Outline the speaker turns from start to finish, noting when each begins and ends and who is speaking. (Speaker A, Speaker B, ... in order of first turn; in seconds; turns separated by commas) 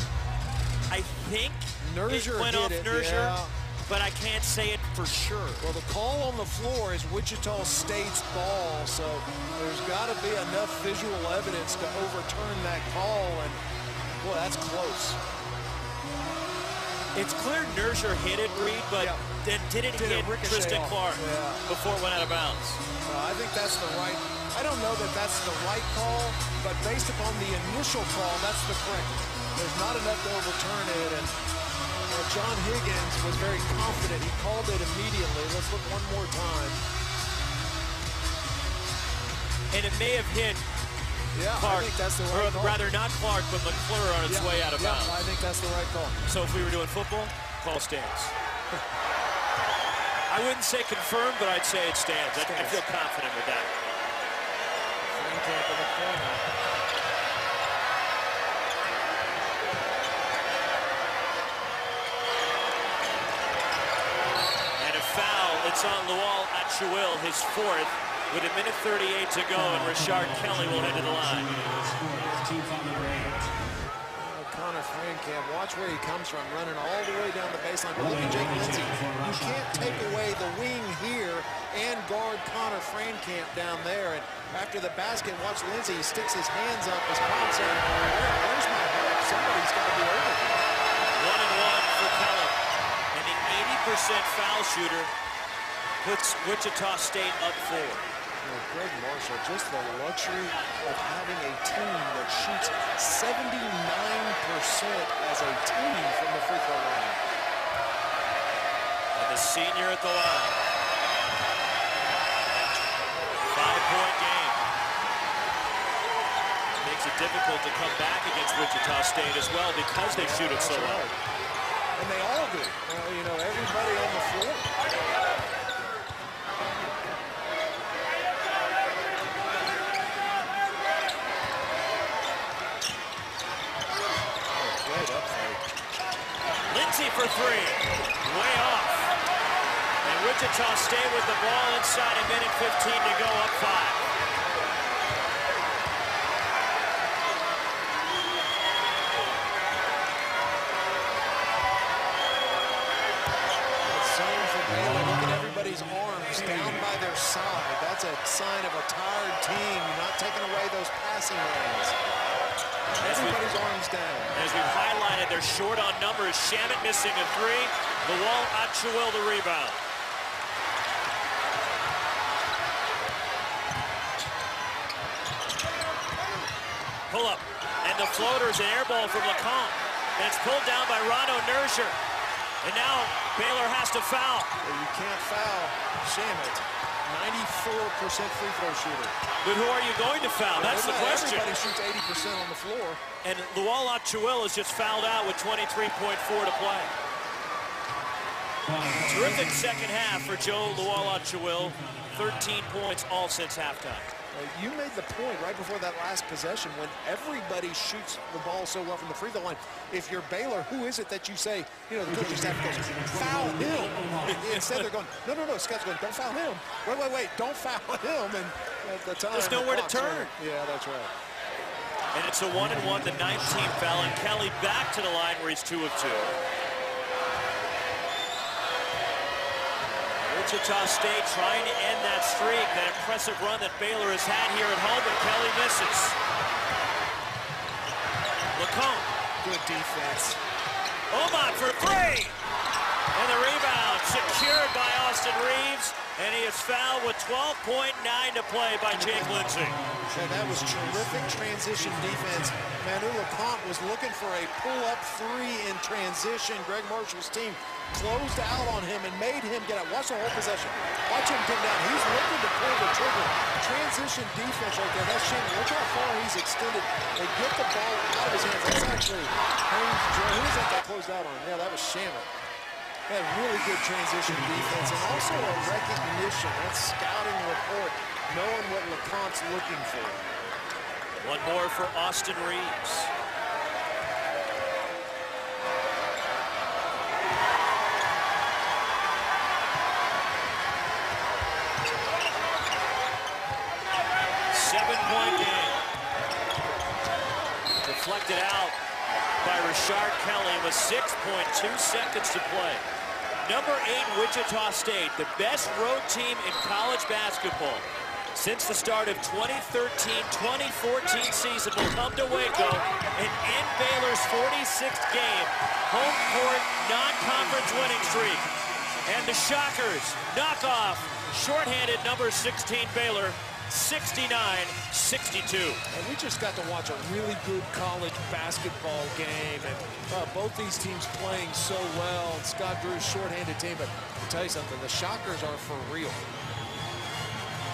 Speaker A: 0.9-5.6, Speaker B: 1.8-3.5, Speaker B: 5.6-13.6, Speaker B: 14.2-15.2, Speaker A: 17.1-22.8, Speaker B: 19.0-19.2, Speaker B: 19.9-21.6, Speaker B: 23.0-31.4, Speaker B: 32.1-36.8, Speaker A: 39.7-40.7, Speaker B: 41.3-42.8, Speaker A: 41.5-45.2, Speaker B: 44.2-46.2, Speaker A: 46.2-48.3, Speaker A: 50.3-53.7, Speaker B: 52.3-52.8, Speaker B: 55.1-56.5, Speaker A: 64.8-71.5, Speaker C: 69.6-73.5, Speaker B: 74.1-90.7, Speaker C: 78.0-80.1, Speaker A: 91.1-92.6, Speaker A: 93.1-95.1, Speaker A: 96.0-98.0, Speaker B: 98.4-107.2, Speaker A: 109.1-110.6, Speaker A: 113.5-114.6, Speaker A: 116.8-121.0, Speaker B: 120.1-121.2, Speaker B: 122.0-124.7, Speaker B: 134.4-135.8, Speaker A: 136.7-139.1, Speaker A: 140.0-144.0, Speaker B: 153.8-162.0, Speaker A: 163.0-163.5, Speaker B: 163.0-164.3, Speaker A: 164.3-169.8, Speaker A: 177.1-182.0, Speaker A: 182.6-184.5, Speaker B: 184.6-189.1, Speaker A: 189.4-191.6, Speaker B: 190.6-193.0, Speaker A: 193.2-196.9, Speaker C: 198.7-202.2, Speaker A: 199.0-204.1, Speaker B: 204.3-221.1, Speaker C: 212.1-214.4, Speaker A: 214.2-214.8, Speaker A: 219.3-220.3, Speaker A: 222.1-226.4, Speaker A: 230.2-236.2, Speaker A: 238.5-239.1, Speaker B: 239.4-240.4, Speaker A: 241.1-242.4, Speaker A: 243.1-249.8, Speaker B: 248.9-249.3, Speaker C: 249.2-252.7, Speaker B: 250.1-272.3, Speaker B: 273.1-280.2, Speaker C: 274.3-276.0, Speaker A: 281.2-283.1, Speaker A: 294.5-295.8, Speaker A: 297.8-298.8, Speaker A: 299.4-302.8, Speaker A: 303.4-318.5, Speaker A: 319.0-325.8, Speaker B: 325.9-336.3